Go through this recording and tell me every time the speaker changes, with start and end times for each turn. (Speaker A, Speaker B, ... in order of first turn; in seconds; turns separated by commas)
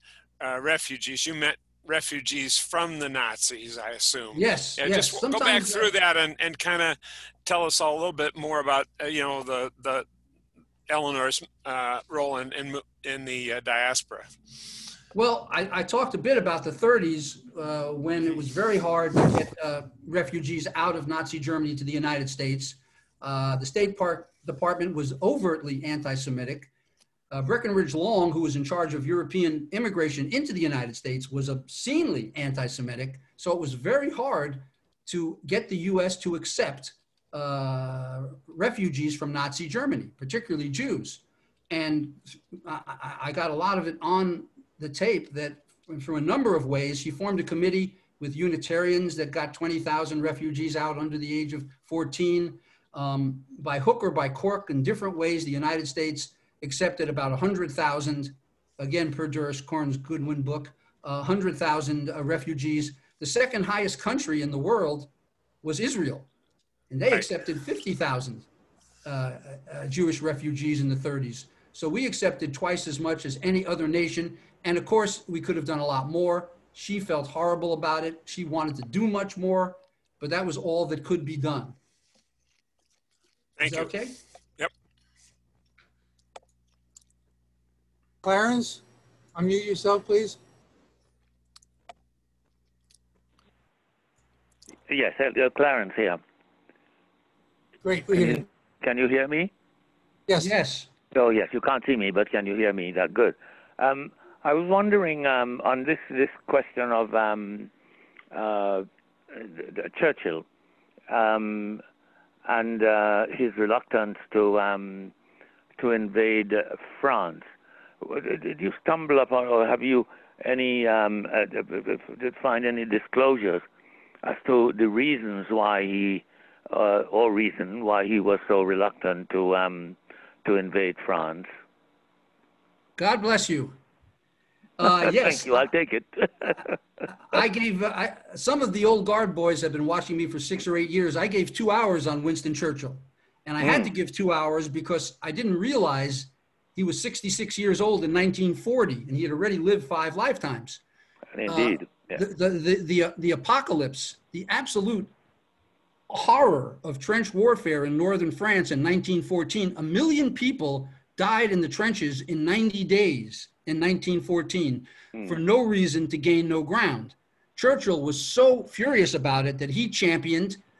Speaker A: 0.4-10.1, Speaker B: 4.3-5.9, Speaker A: 10.9-14.3, Speaker B: 15.1-26.7, Speaker B: 27.3-65.1, Speaker B: 65.6-66.3, Speaker B: 66.9-68.5, Speaker B: 69.0-81.8, Speaker A: 83.6-83.9, Speaker B: 83.6-84.2, Speaker C: 88.2-88.8, Speaker C: 89.3-90.4, Speaker D: 94.9-96.2, Speaker C: 97.8-98.4, Speaker D: 98.1-99.5, Speaker B: 100.4-100.9, Speaker D: 101.1-107.7, Speaker D: 108.3-110.4, Speaker D: 111.1-111.8, Speaker D: 112.4-115.1, Speaker D: 115.8-117.5, Speaker D: 118.0-123.6, Speaker D: 124.2-131.5, Speaker B: 133.0-133.8, Speaker B: 134.8-135.7, Speaker D: 134.8-136.8, Speaker B: 137.1-150.8, Speaker D: 143.6-143.9, Speaker D: 151.3-152.2, Speaker B: 151.5-155.1, Speaker B: 156.1-170.6